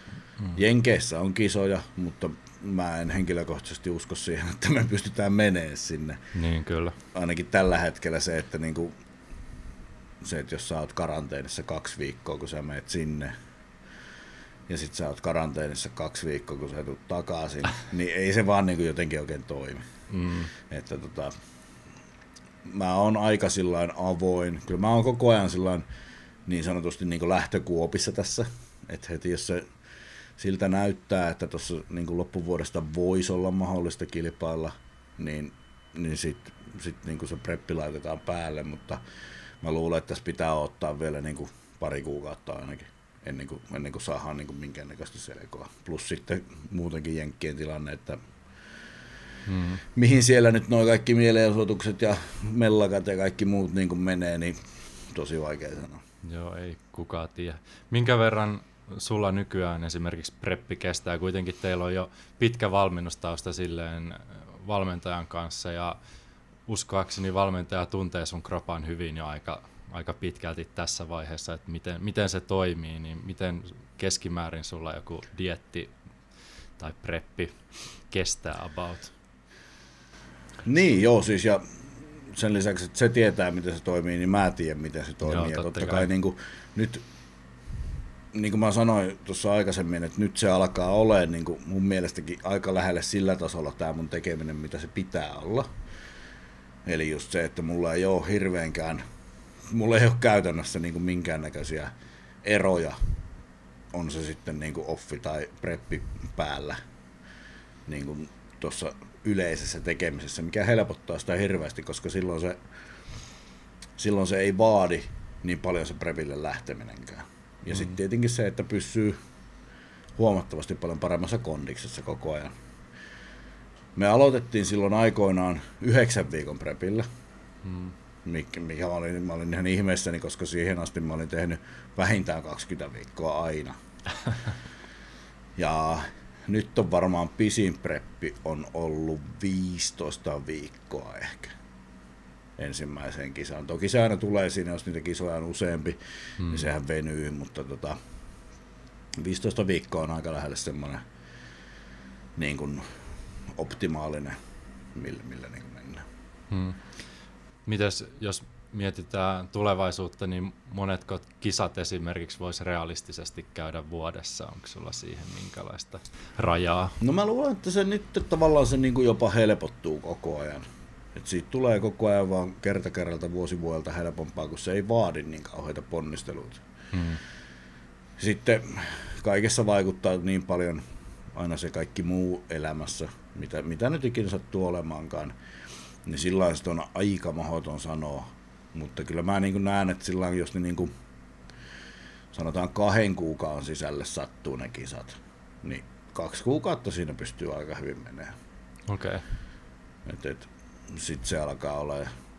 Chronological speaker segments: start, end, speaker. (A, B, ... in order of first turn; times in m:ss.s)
0:00.5-0:06.2 A
0:06.3-0:07.0 B
0:07.1-0:08.9 A
0:10.2-0:13.3 A
0:14.7-0:19.8 A
0:20.1-0:20.5 B
0:20.6-0:21.3 A
0:22.6-0:25.8 A
0:26.4-0:29.7 A
0:30.4-0:39.0 A
0:39.6-0:48.2 A
0:49.5-0:49.8 B
0:49.9-0:54.6 A
0:55.1-0:56.0 A
0:56.2-1:06.0 B
1:06.7-1:15.9 B
1:16.8-1:17.6 B
1:18.1-1:19.1 B
1:20.6-1:27.0 A
1:25.2-1:26.1 B
1:28.3-1:35.7 A
1:36.8-1:39.0 A
1:39.7-1:43.0 A
1:43.9-1:46.8 A
1:47.9-1:52.6 A
1:54.0-1:59.2 A
2:00.2-2:02.5 A
2:04.0-2:07.0 A
2:07.6-2:07.9 B
2:08.2-2:13.8 A
2:15.6-2:21.5 A
2:22.6-2:28.0 A
2:26.4-2:26.7 B
2:29.2-2:31.0 A
2:32.4-2:32.8 A
2:33.5-2:34.4 A
2:34.9-2:36.0 A
2:36.5-2:36.8 B
2:37.6-2:47.0 B
2:47.0-2:56.6 A
2:56.9-2:57.2 B
2:58.2-3:00.8 A
3:01.3-3:05.3 A
3:06.0-3:10.9 A
3:12.3-3:18.3 A
3:18.9-3:19.2 B
3:20.0-3:22.1 A